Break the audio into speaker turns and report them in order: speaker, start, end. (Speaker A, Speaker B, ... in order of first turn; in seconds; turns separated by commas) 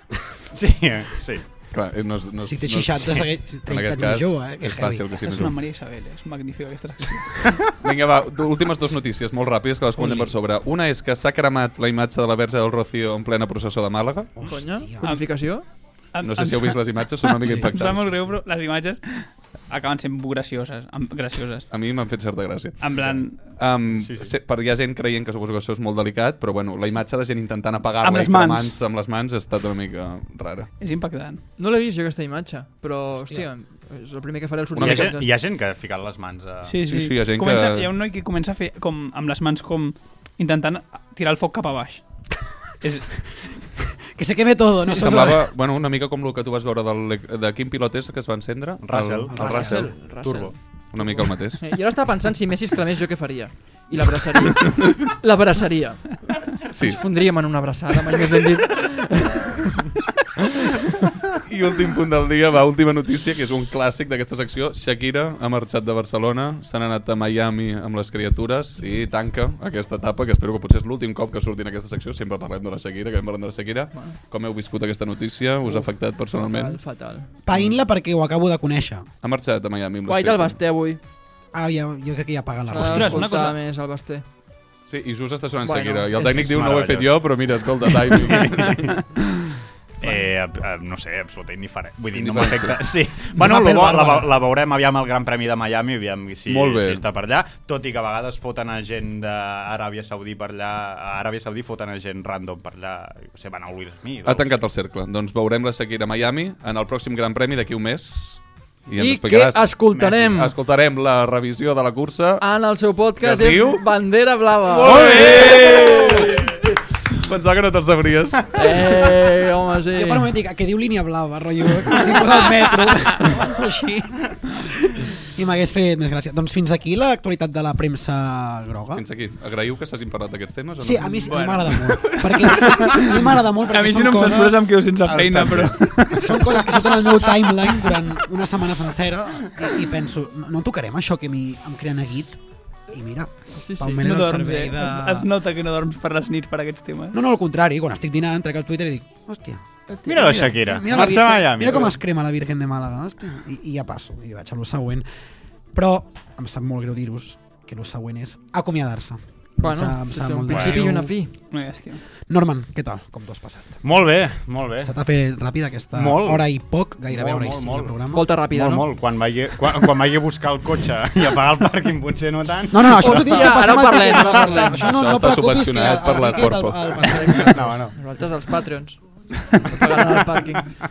Speaker A: 0.5-1.4, Speaker B: 1.7-5.5, Speaker C: 2.4-5.0, Speaker D: 5.1-7.5, Speaker B: 7.8-14.5, Speaker C: 14.3-15.1, Speaker E: 14.5-15.6, Speaker D: 15.0-15.4, Speaker D: 16.1-21.7, Speaker B: 16.2-18.3, Speaker C: 17.4-17.7, Speaker B: 21.7-30.7, Speaker D: 22.8-23.5, Speaker A: 23.9-24.3, Speaker D: 28.0-28.7, Speaker D: 30.8-31.4, Speaker E: 31.6-35.3, Speaker C: 33.1-33.5, Speaker B: 34.7-35.1, Speaker A: 34.8-36.8, Speaker D: 36.6-42.0, Speaker B: 36.8-37.9, Speaker D: 42.8-43.3, Speaker C: 44.1-45.4, Speaker B: 44.9-50.2, Speaker A: 48.8-50.5, Speaker E: 49.3-59.5, Speaker B: 50.9-51.7, Speaker B: 56.7-57.0, Speaker B: 61.4-76.8, Speaker E: 75.7-77.3, Speaker C: 77.5-79.1, Speaker B: 77.5-77.7, Speaker B: 79.2-80.6, Speaker E: 80.0-81.0, Speaker C: 81.5-83.5, Speaker E: 82.7-84.2, Speaker D: 82.8-83.6, Speaker B: 84.8-89.0, Speaker E: 85.6-86.6, Speaker A: 86.3-87.5, Speaker A: 88.2-88.9, Speaker A: 90.0-104.5, Speaker B: 92.1-93.0, Speaker C: 93.4-94.2, Speaker E: 93.4-94.2, Speaker B: 96.5-97.0, Speaker B: 104.2-112.4, Speaker E: 108.9-110.5, Speaker A: 109.9-110.3, Speaker E: 112.4-116.6, Speaker B: 113.2-114.0, Speaker B: 114.6-116.5, Speaker A: 114.8-116.3, Speaker B: 117.1-118.8, Speaker E: 118.5-120.3, Speaker C: 119.9-129.0, Speaker B: 128.9-131.4, Speaker C: 130.8-134.7, Speaker D: 131.2-137.9, Speaker B: 135.0-136.0, Speaker C: 136.1-142.4, Speaker C: 142.9-145.3, Speaker E: 143.6-144.0, Speaker D: 144.0-147.2, Speaker C: 147.1-149.6, Speaker E: 149.9-151.2, Speaker A: 150.1-152.0, Speaker C: 150.5-155.0, Speaker C: 155.7-161.1, Speaker E: 159.6-161.3, Speaker A: 160.5-160.8, Speaker D: 161.5-162.0, Speaker C: 162.3-163.8, Speaker A: 163.8-164.9, Speaker C: 164.8-168.3, Speaker A: 165.9-166.4, Speaker A: 167.1-174.6, Speaker E: 168.1-168.9, Speaker C: 172.7-177.8, Speaker E: 172.8-175.1, Speaker B: 174.7-176.9, Speaker E: 177.0-179.0, Speaker A: 177.4-177.9, Speaker E: 179.5-180.7